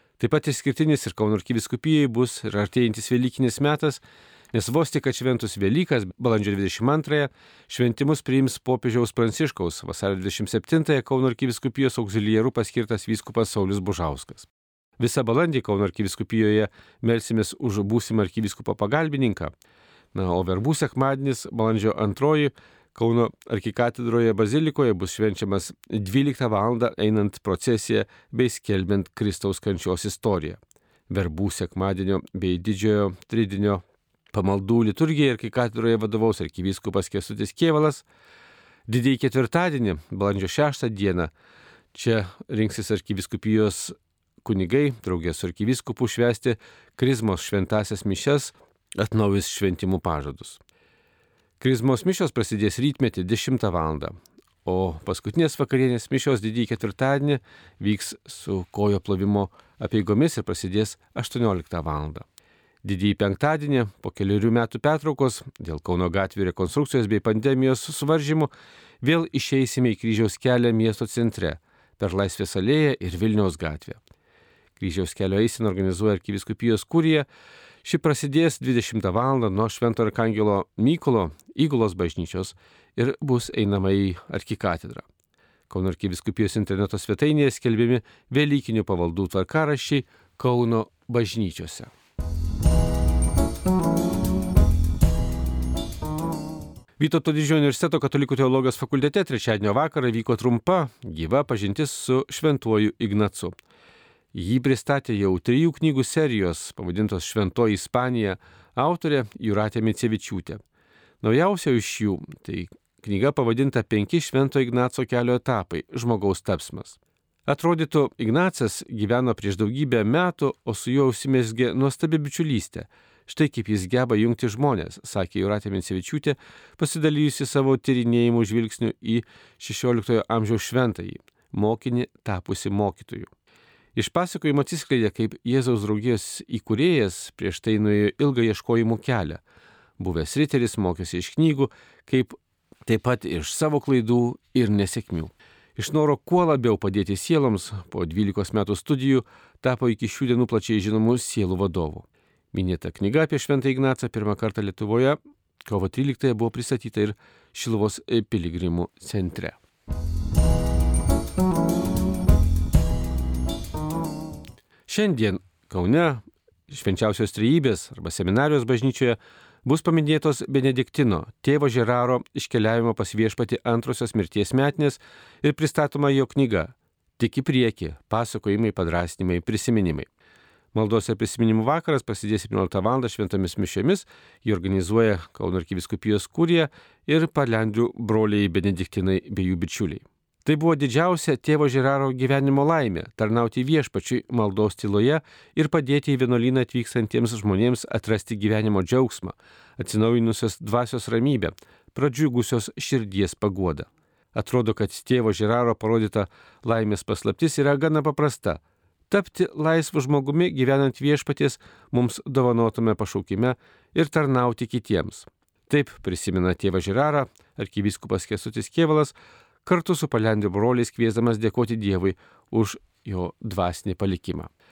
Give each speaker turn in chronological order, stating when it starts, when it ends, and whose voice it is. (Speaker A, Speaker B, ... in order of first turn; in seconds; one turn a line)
Speaker A: 0.2-4.0
Speaker A: 4.5-19.5
Speaker A: 20.1-38.0
Speaker A: 38.9-41.3
Speaker A: 41.9-50.6
Speaker A: 51.6-54.1
Speaker A: 54.6-62.2
Speaker A: 62.8-68.5
Speaker A: 69.0-74.0
Speaker A: 74.8-77.3
Speaker A: 77.8-85.1
Speaker A: 85.7-91.9
Speaker A: 97.0-103.5
Speaker A: 104.3-110.6
Speaker A: 111.2-133.3
Speaker A: 133.9-139.4
Speaker A: 140.0-159.6
Speaker A: 164.9-180.1
Speaker A: 180.7-224.5